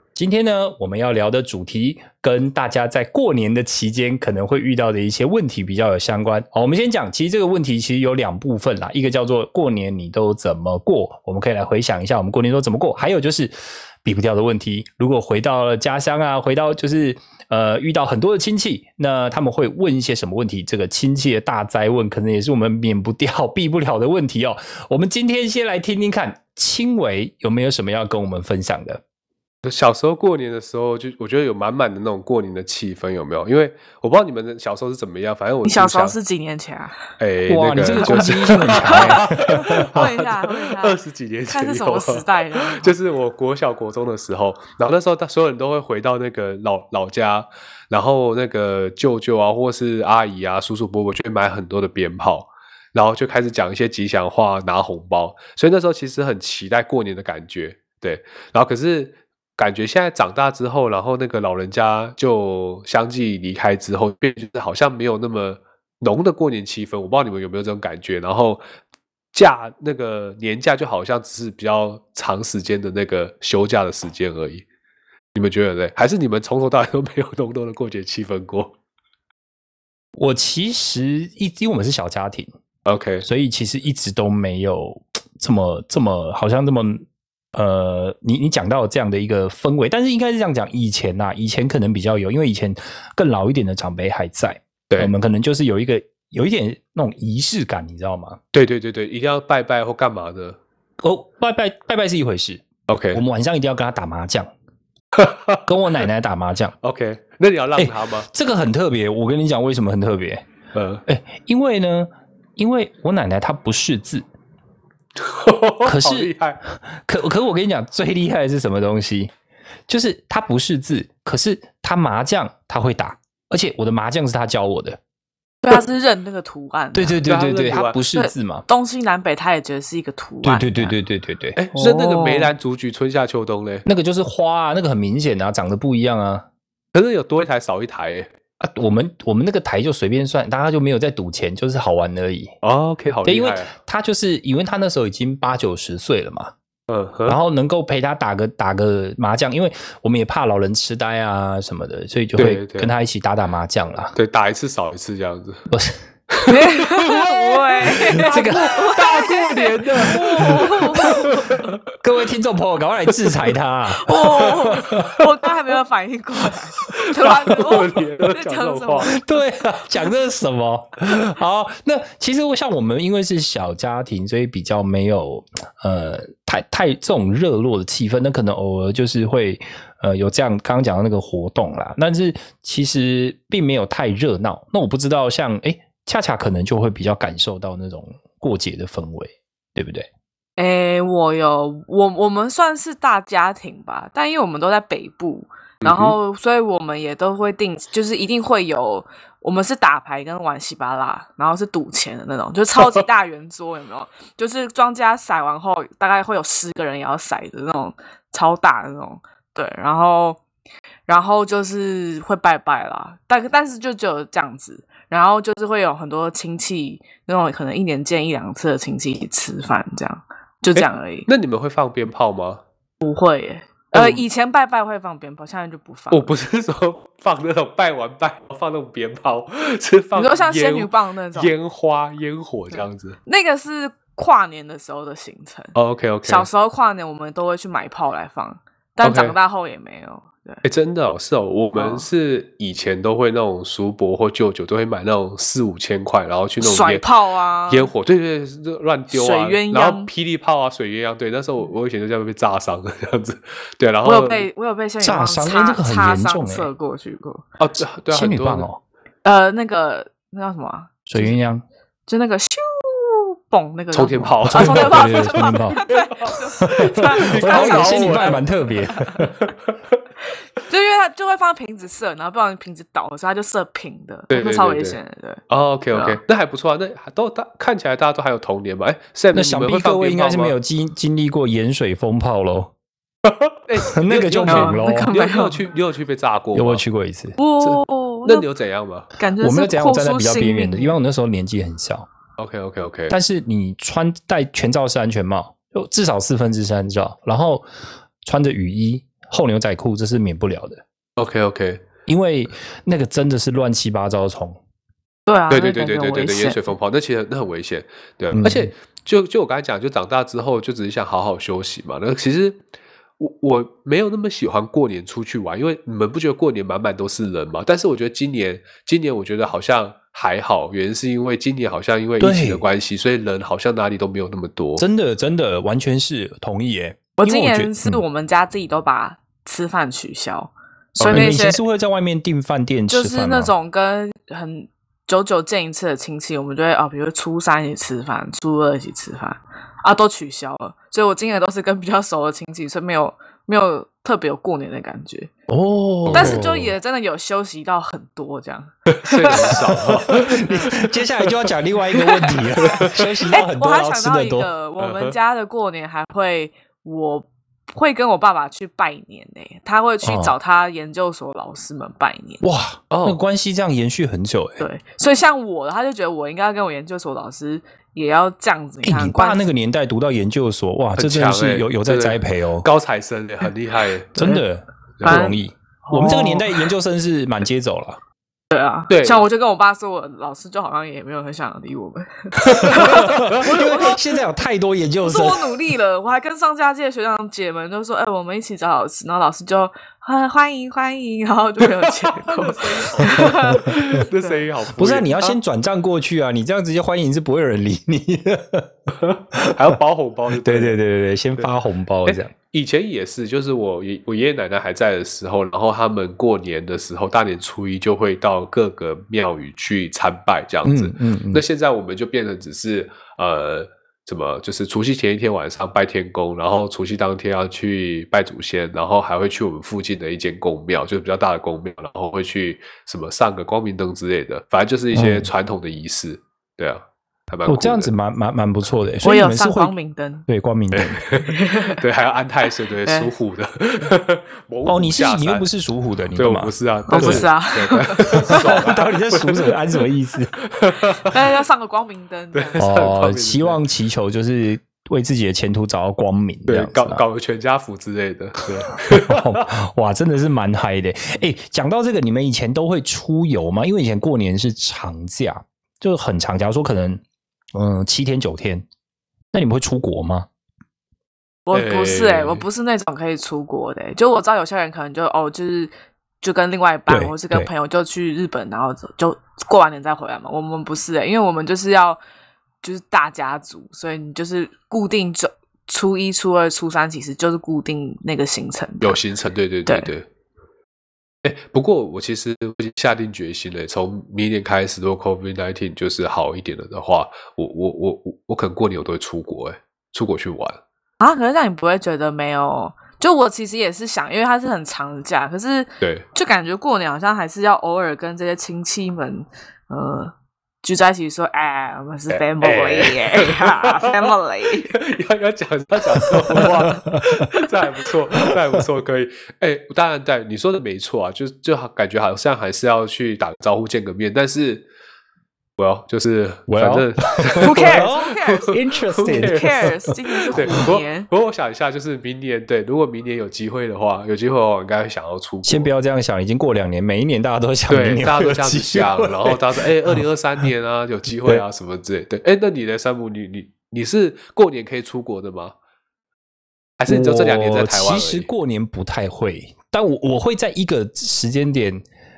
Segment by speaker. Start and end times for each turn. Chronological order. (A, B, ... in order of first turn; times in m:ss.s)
0:00.2-0:13.5 A
0:14.0-0:29.0 A
0:29.6-0:36.2 B
0:35.6-0:37.0 C
0:37.2-1:08.6 B
0:37.5-0:40.0 A
0:38.0-0:42.9 C
1:09.3-1:14.6 B
1:15.3-1:18.8 B
1:20.2-1:22.5 A
1:22.9-1:23.3 B
1:23.2-1:38.4 A
1:38.5-1:40.6 B
1:41.0-1:44.5 A
1:42.9-1:43.2 B
1:45.1-1:45.6 B
1:45.7-1:46.7 A
1:46.8-1:48.3 B
1:47.8-1:50.4 A
1:50.7-1:51.0 B
1:51.1-1:54.3 A
1:55.2-1:56.6 B
1:55.8-1:59.3 A
1:59.9-2:05.0 A
2:05.6-2:07.3 C
2:06.9-2:08.6 A
2:07.3-2:08.0 B
2:08.1-2:11.0 C
2:10.4-2:11.6 A
2:11.6-2:13.9 B
2:11.7-2:12.5 C
2:13.9-2:16.5 A
2:16.9-2:18.3 B
2:18.6-2:22.6 A
2:22.6-2:23.7 B
2:23.2-2:26.5 A
2:26.9-2:27.4 B
2:27.3-2:34.2 A
2:32.4-2:32.9 B
2:34.2-2:35.7 B
2:35.7-2:36.0 A
2:36.3-2:41.8 B
2:36.5-2:41.7 C
2:38.1-2:39.2 A
2:39.8-2:41.2 A
2:42.0-2:45.1 A
2:43.1-2:43.5 B
2:43.9-2:49.2 C
2:44.8-2:45.1 B
2:47.1-2:49.2 B
2:49.1-3:10.1 A
3:10.6-3:30.4 C
3:15.8-3:16.2 B
3:31.1-3:41.3 C
3:40.8-3:42.6 B
3:43.0-3:46.3 C
3:43.9-3:44.2 B
3:46.1-3:53.2 B
3:50.2-3:51.5 C
3:53.3-4:00.6 C
3:55.8-3:56.5 B
3:59.0-3:59.4 B
4:00.6-4:07.1 B
4:01.7-4:02.1 C
4:06.6-4:07.9 C
4:07.7-4:14.5 B
4:09.1-4:10.1 C
4:14.0-4:17.4 C
4:15.0-4:16.7 A
4:17.6-4:18.7 B
4:18.1-4:18.8 A
4:19.2-4:21.4 C
4:21.1-4:21.6 A
4:22.1-4:29.1 C
4:23.9-4:28.4 B
4:24.2-4:29.3 A
4:29.4-4:29.8 B
4:30.7-4:36.2 C
4:34.3-4:40.5 B
4:39.3-4:42.7 A
4:43.2-4:46.8 B
4:43.8-4:45.1 A
4:44.5-4:45.6 C
4:46.5-4:47.4 A
4:47.4-4:48.5 C
4:47.6-4:49.1 B
4:49.2-4:51.0 C
4:49.4-4:52.1 A
4:52.4-4:53.2 B
4:53.1-4:57.6 A
4:58.2-5:00.8 A
5:01.2-5:01.9 B
5:02.1-5:04.6 A
5:05.3-5:06.6 C
5:05.5-5:12.6 B
5:08.3-5:08.7 A
5:13.2-5:24.8 B
5:22.2-5:22.6 A
5:24.8-5:28.0 A
5:27.2-5:31.6 C
5:31.0-5:31.4 B
5:31.1-5:33.5 A
5:32.9-5:45.3 C
5:45.5-5:46.7 A
5:46.1-5:46.4 B
5:46.1-5:50.8 C
5:48.9-5:50.7 B
5:49.8-5:54.5 A
5:51.9-6:02.4 C
5:52.7-5:53.1 B
5:54.8-5:55.2 B
6:00.0-6:00.3 A
6:02.4-6:04.7 A
6:02.9-6:03.2 B
6:04.6-6:09.4 C
6:08.8-6:12.7 A
6:11.0-6:14.2 B
6:14.2-6:18.0 A
6:15.0-6:15.4 B
6:15.0-6:16.7 C
6:18.5-6:24.0 C
6:18.9-6:19.3 B
6:22.4-6:23.5 B
6:22.6-6:25.6 A
6:25.0-6:34.3 C
6:31.8-6:35.2 B
6:34.7-6:38.7 A
6:39.0-6:40.8 B
6:39.4-6:39.8 A
6:40.3-6:42.3 A
6:42.1-7:07.9 B
6:50.6-6:51.4 A
7:04.9-7:05.3 A
7:07.5-7:09.7 A
7:09.0-7:10.3 C
7:10.3-7:11.0 A
7:10.7-7:15.5 B
7:11.2-7:11.8 C
7:12.8-7:13.1 C
7:14.6-7:17.3 A
7:16.2-7:19.6 B
7:16.9-7:18.7 C
7:18.2-7:20.4 A
7:20.4-7:21.2 B
7:21.0-7:22.7 C
7:22.3-7:23.6 B
7:22.6-7:27.0 A
7:26.5-7:29.5 B
7:28.9-7:37.0 A
7:37.5-7:38.7 A
7:39.3-7:40.3 A
7:41.5-7:52.0 C
7:41.5-7:42.4 B
7:46.9-7:47.5 A
7:52.6-7:59.0 C
7:58.8-8:00.1 B
7:59.7-7:59.9 C
8:01.2-8:10.6 B
8:11.0-8:24.8 C
8:22.1-8:34.7 B
8:26.4-8:27.2 A
8:35.6-8:39.6 B
8:36.5-8:40.6 A
8:37.4-8:41.1 C
8:40.3-8:45.7 B
8:45.4-8:50.5 A
8:47.7-8:55.5 B
8:56.8-8:58.3 B
8:56.9-9:01.8 A